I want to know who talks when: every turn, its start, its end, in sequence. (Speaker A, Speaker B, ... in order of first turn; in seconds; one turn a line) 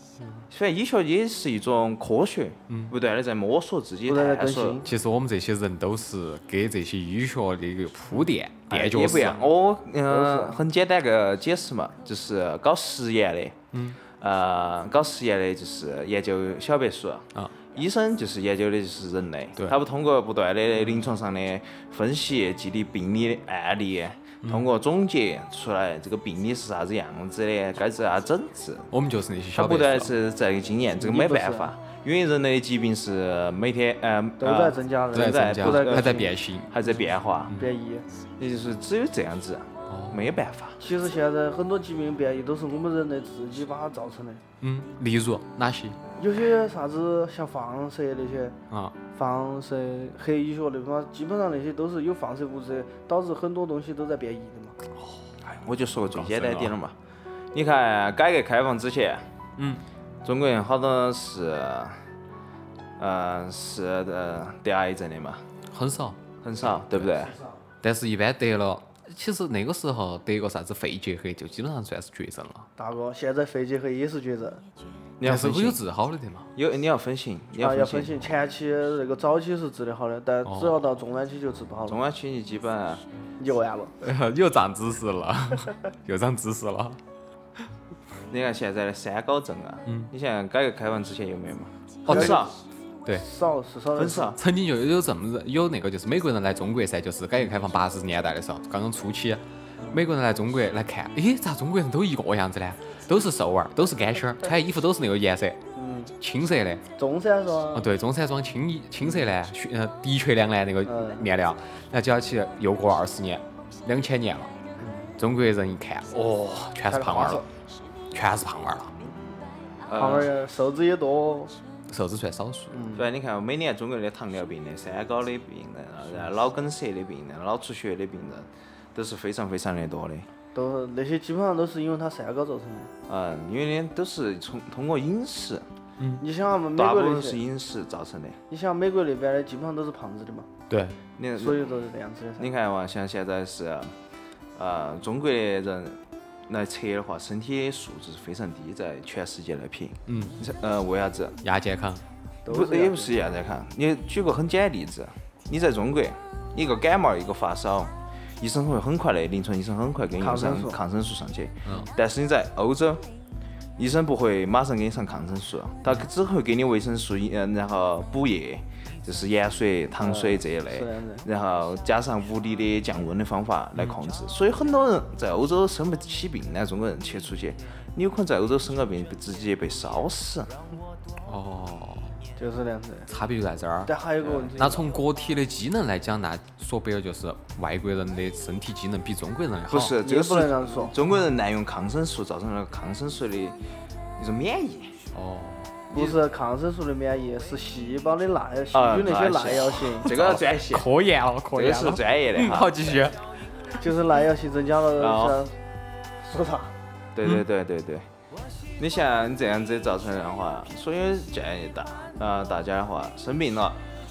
Speaker A: 0.2-0.5
Speaker B: 0.5-4.8
Speaker A: 4.0-4.9
Speaker C: 4.8-9.4
Speaker B: 8.7-13.6
Speaker A: 10.1-10.6
Speaker C: 13.7-14.0
Speaker B: 14.2-28.9
Speaker C: 24.4-24.7
Speaker C: 28.9-30.1
Speaker B: 29.5-37.5
Speaker A: 31.0-31.7
Speaker A: 34.4-36.3
Speaker C: 35.1-36.8
Speaker A: 37.5-38.0
Speaker B: 38.4-40.8
Speaker C: 39.9-40.3
Speaker A: 40.8-44.4
Speaker C: 44.6-46.0
Speaker A: 46.2-48.6
Speaker C: 48.7-49.0
Speaker A: 49.1-54.8
Speaker C: 55.0-55.3
Speaker B: 55.5-57.0
Speaker C: 56.1-56.7
Speaker B: 57.5-59.3
Speaker C: 59.6-59.8
Speaker B: 60.2-62.0
Speaker B: 63.0-65.4
Speaker C: 65.7-67.1
Speaker B: 66.4-67.3
Speaker C: 67.8-72.7
Speaker A: 72.8-74.6
Speaker B: 75.2-75.8
Speaker C: 75.2-76.5
Speaker B: 76.5-78.3
Speaker A: 77.6-82.0
Speaker C: 80.4-80.8
Speaker B: 81.9-83.0
Speaker A: 83.4-83.9
Speaker C: 84.0-87.0
Speaker B: 88.3-92.5
Speaker C: 92.0-92.4
Speaker A: 92.1-92.5
Speaker A: 93.1-94.3
Speaker B: 93.9-94.4
Speaker C: 94.3-105.6
Speaker A: 105.8-106.1
Speaker C: 106.2-106.8
Speaker A: 107.0-107.9
Speaker C: 107.7-114.5
Speaker A: 110.8-111.3
Speaker A: 114.8-115.0
Speaker C: 115.2-117.4
Speaker A: 116.8-117.5
Speaker C: 118.1-118.9
Speaker B: 119.8-120.3
Speaker A: 119.9-121.5
Speaker C: 121.9-122.8
Speaker A: 122.7-123.1
Speaker B: 122.9-130.3
Speaker A: 130.5-132.9
Speaker B: 133.1-135.7
Speaker A: 136.2-137.4
Speaker B: 136.8-138.4
Speaker A: 138.5-140.5
Speaker C: 140.7-141.0
Speaker B: 141.2-141.7
Speaker A: 141.3-142.5
Speaker B: 142.4-143.9
Speaker B: 144.6-151.4
Speaker C: 150.1-150.4
Speaker C: 151.4-152.0
Speaker A: 152.4-153.1
Speaker B: 152.5-163.0
Speaker A: 160.2-160.8
Speaker C: 161.6-161.9
Speaker B: 163.8-180.5
Speaker A: 170.0-171.3
Speaker C: 181.2-182.2
Speaker A: 182.4-183.1
Speaker C: 183.1-183.9
Speaker A: 183.8-184.9
Speaker B: 184.2-184.5
Speaker C: 184.5-190.0
Speaker B: 189.7-193.6
Speaker A: 190.0-190.9
Speaker B: 194.2-195.0
Speaker C: 195.1-195.7
Speaker B: 195.9-196.2
Speaker A: 195.9-200.1
Speaker B: 198.7-200.9
Speaker C: 200.1-203.2
Speaker B: 201.5-203.0
Speaker A: 203.7-205.6
Speaker B: 205.0-205.4
Speaker A: 206.2-206.7
Speaker B: 207.1-208.1
Speaker B: 208.8-213.8